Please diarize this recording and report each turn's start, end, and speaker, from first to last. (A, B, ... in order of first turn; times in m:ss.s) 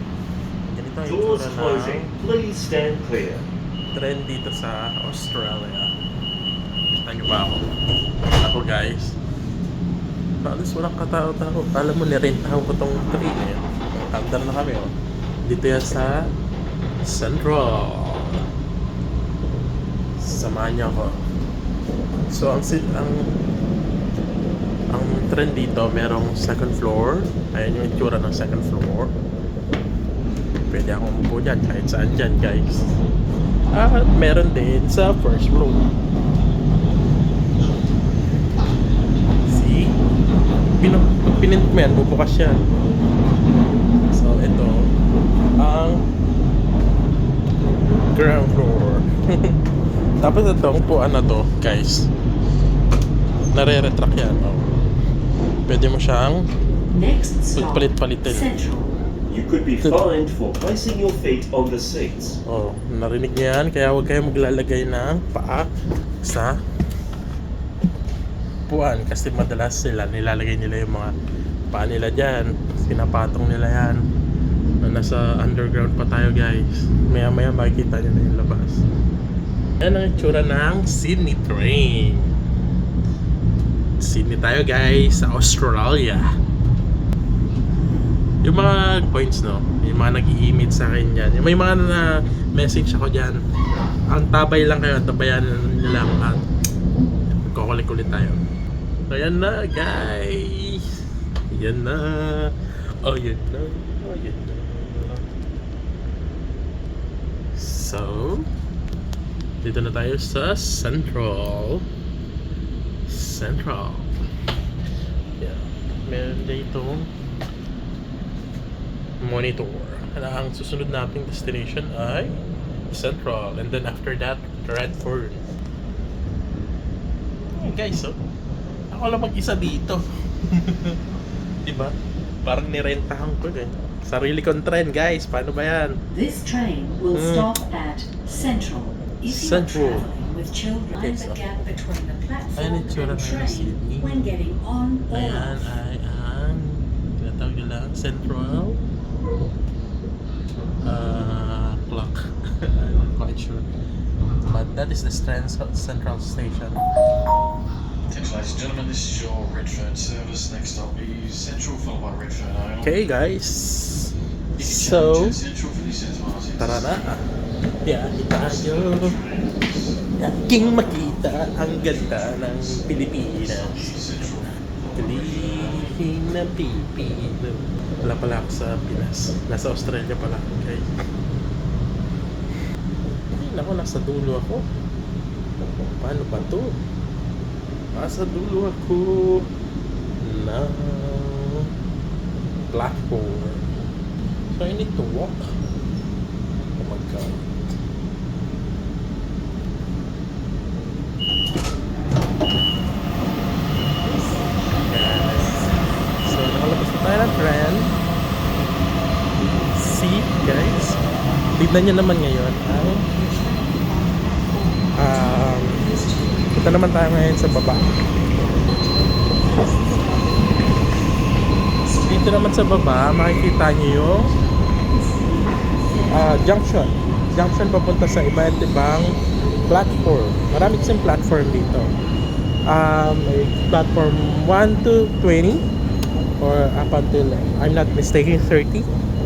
0:00.7-0:02.1 A
0:01.0-0:03.5 B
0:03.9-0:05.9 A
0:07.0-0:07.6 A
0:08.4-0:09.2 A
0:10.4-0:14.9 A
0:15.4-0:16.1 A
0:17.0-0:18.4 A
0:20.2-0:21.2 A
0:22.3-0:23.3 A
0:24.9-0:29.1 A
0:30.7-0:33.0 A
0:33.7-0:35.8 A
0:39.5-0:40.0 A
0:40.8-0:42.6 A
0:44.1-0:44.9 A
0:45.6-0:46.0 A
0:48.1-0:49.5 A
0:50.2-0:52.1 A
0:53.5-0:54.7 A
0:55.7-0:56.5 A
0:56.9-0:58.9 C
0:57.5-0:58.5 A
0:59.3-1:02.4 B
1:02.4-1:05.7 A
1:06.2-1:06.6 A
1:08.7-1:11.1 A
1:11.7-1:14.0 A
1:14.8-1:18.8 A
1:19.8-1:22.3 A
1:24.0-1:26.2 A
1:28.4-1:33.4 A
1:34.1-1:36.4 A
1:37.3-1:38.4 A
1:39.1-1:40.8 A
1:41.5-1:45.3 A
1:47.5-1:48.5 A
1:49.6-1:51.8 A
1:53.1-1:54.1 A
1:55.4-1:57.1 A
1:59.2-2:02.4 A
2:02.9-2:05.4 A
2:07.6-2:08.2 A
2:08.9-2:11.0 A
2:11.6-2:16.0 A
2:16.1-2:25.7 C
2:17.1-2:17.5 A
2:19.3-2:20.1 A
2:21.0-2:21.5 A
2:22.6-2:24.3 A
2:25.1-2:28.8 A
2:30.8-2:33.7 A
2:34.4-2:36.8 A
2:38.1-2:43.0 D
2:42.8-2:45.4 A
2:44.6-2:47.1 D
2:46.6-2:47.2 A
2:47.8-2:49.2 A
2:48.4-2:56.0 D
2:50.2-2:54.0 A
2:54.9-3:00.8 A
3:03.3-3:04.6 A
3:05.9-3:06.7 A
3:07.9-3:09.4 A
3:10.2-3:11.7 A
3:12.7-3:13.6 A
3:14.5-3:15.4 A
3:16.8-3:17.5 A
3:24.0-3:25.9 C
3:24.8-3:27.9 A
3:29.7-3:31.0 A
3:31.5-3:33.0 A
3:32.9-3:36.6 C
3:35.0-3:35.8 A
3:36.5-3:38.0 A
3:38.5-3:40.8 C
3:39.0-3:39.9 A
3:41.8-3:42.4 C
3:42.0-3:44.3 A
3:44.8-3:46.4 C
3:46.1-3:49.2 A
3:49.7-3:51.9 A
3:52.6-3:55.6 A
3:56.4-3:58.9 A